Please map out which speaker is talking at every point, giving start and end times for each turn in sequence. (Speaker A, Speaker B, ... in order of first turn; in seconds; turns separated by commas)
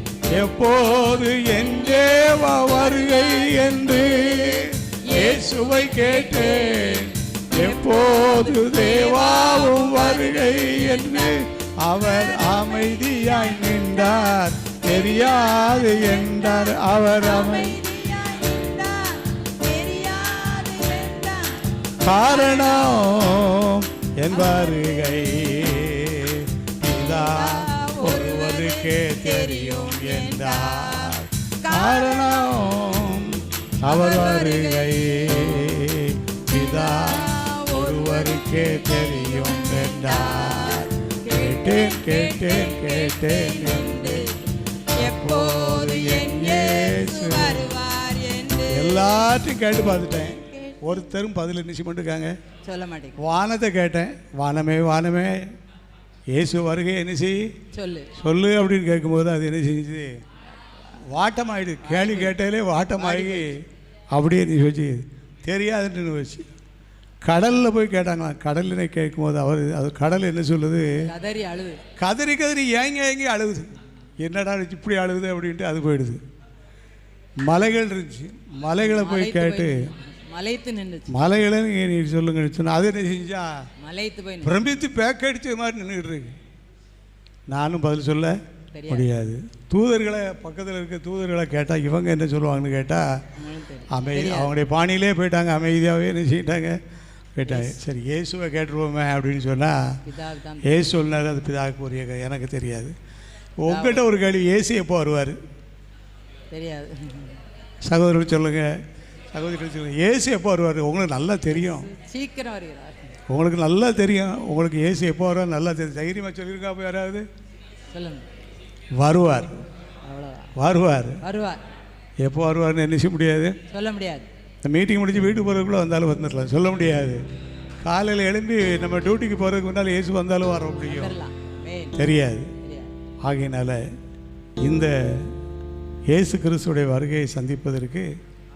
Speaker A: 0.3-17.8, Speaker B: 1.9-3.7, Speaker B: 5.0-11.4, Speaker B: 12.0-23.1, Speaker A: 22.0-44.3, Speaker B: 24.3-25.6, Speaker B: 27.1-32.6, Speaker B: 33.8-35.6, Speaker B: 36.5-44.4, Speaker A: 44.9-47.7, Speaker B: 45.0-49.2, Speaker A: 48.7-52.4, Speaker B: 52.6-53.2, Speaker A: 53.2-55.5, Speaker A: 56.3-57.5, Speaker B: 57.7-58.1, Speaker A: 58.1-60.2, Speaker A: 61.0-66.5, Speaker B: 61.8-62.4, Speaker B: 62.9-63.5, Speaker A: 67.2-71.1, Speaker B: 71.0-71.8, Speaker A: 72.0-73.7, Speaker A: 74.2-76.2, Speaker A: 77.4-79.9, Speaker B: 78.8-81.1, Speaker A: 81.1-83.5, Speaker B: 83.8-84.6, Speaker A: 84.4-86.3, Speaker A: 87.5-93.0, Speaker B: 88.7-89.1, Speaker B: 93.3-94.5, Speaker A: 93.9-96.8, Speaker A: 97.3-100.0, Speaker B: 97.4-97.7, Speaker B: 100.0-100.8, Speaker A: 100.6-103.0, Speaker A: 103.6-105.4, Speaker B: 103.7-104.0, Speaker B: 106.5-107.4, Speaker A: 107.8-108.8, Speaker A: 109.3-111.9, Speaker B: 111.5-113.2, Speaker A: 113.3-117.2, Speaker B: 117.9-118.3, Speaker A: 119.0-119.6, Speaker B: 120.0-120.5, Speaker A: 120.5-121.2, Speaker B: 121.2-121.6, Speaker A: 122.2-123.6, Speaker B: 123.7-124.3, Speaker A: 124.7-127.2, Speaker A: 127.8-131.2, Speaker B: 130.8-132.1, Speaker A: 132.0-132.5, Speaker B: 132.6-132.9, Speaker A: 133.2-133.8, Speaker A: 134.6-135.3, Speaker A: 136.1-138.1